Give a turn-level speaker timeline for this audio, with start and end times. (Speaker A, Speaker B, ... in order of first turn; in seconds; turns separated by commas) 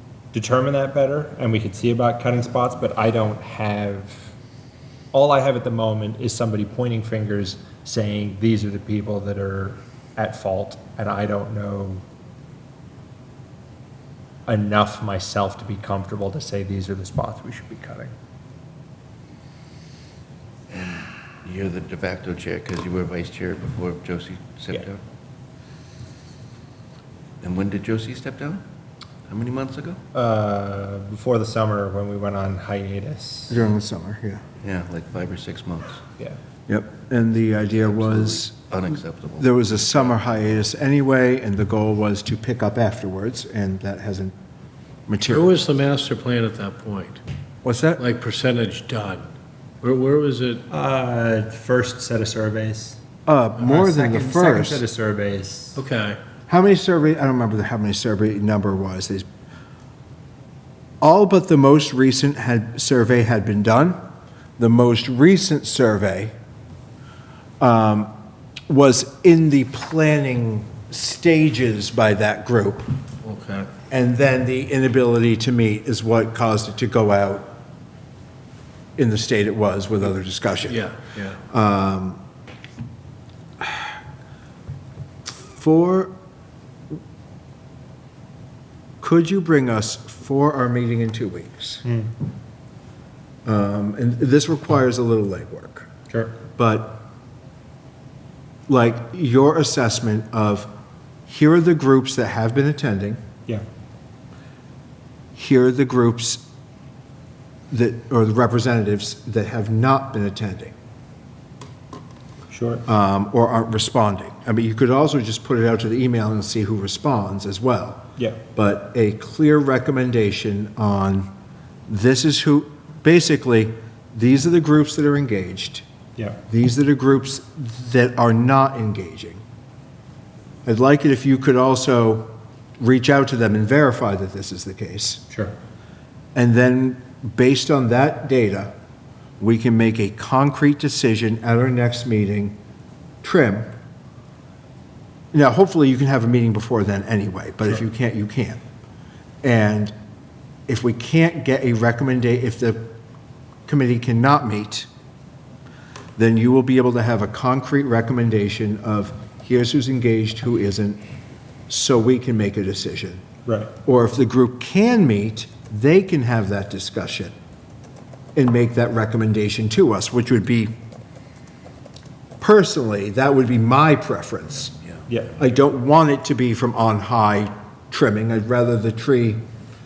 Speaker A: 0.3-4.3, Speaker A: 5.1-12.0, Speaker A: 14.5-18.1, Speaker B: 20.7-25.0, Speaker B: 27.4-28.6, Speaker B: 29.3-30.0, Speaker A: 30.1-33.6, Speaker C: 33.5-34.4, Speaker B: 34.6-36.0, Speaker C: 36.7-38.6, Speaker B: 38.0-39.6, Speaker C: 39.4-44.3, Speaker C: 45.1-45.5, Speaker D: 45.3-47.2, Speaker C: 47.6-48.0, Speaker D: 48.0-49.2, Speaker D: 49.8-50.6, Speaker A: 50.7-53.0, Speaker C: 53.3-54.8, Speaker A: 53.6-55.8, Speaker D: 55.7-56.2, Speaker C: 56.5-59.2, Speaker C: 61.0-64.0, Speaker C: 64.6-66.3, Speaker C: 67.6-68.1, Speaker C: 68.7-72.9, Speaker D: 73.2-73.7, Speaker C: 73.9-77.5, Speaker C: 79.0-80.8, Speaker D: 80.6-81.4, Speaker C: 81.5-82.2, Speaker C: 85.5-86.1, Speaker C: 89.0-91.8, Speaker A: 91.8-92.1, Speaker C: 93.4-95.9, Speaker A: 96.1-96.4, Speaker C: 96.5-97.0, Speaker C: 98.7-100.7, Speaker C: 101.3-103.2, Speaker C: 105.3-106.4, Speaker C: 107.7-110.7, Speaker A: 112.5-112.8, Speaker C: 112.8-118.0, Speaker C: 118.5-121.3, Speaker C: 121.9-125.8, Speaker C: 126.5-129.4, Speaker C: 130.7-135.2, Speaker C: 136.3-138.7, Speaker C: 139.4-142.6, Speaker C: 143.2-143.7, Speaker C: 145.3-148.6, Speaker C: 149.4-149.9, Speaker C: 150.7-152.9, Speaker C: 153.7-154.9, Speaker C: 156.2-161.0, Speaker C: 161.7-163.2, Speaker A: 163.4-163.7, Speaker C: 163.8-167.3, Speaker C: 168.3-170.7, Speaker C: 172.4-174.8, Speaker A: 175.1-175.3, Speaker C: 175.4-179.4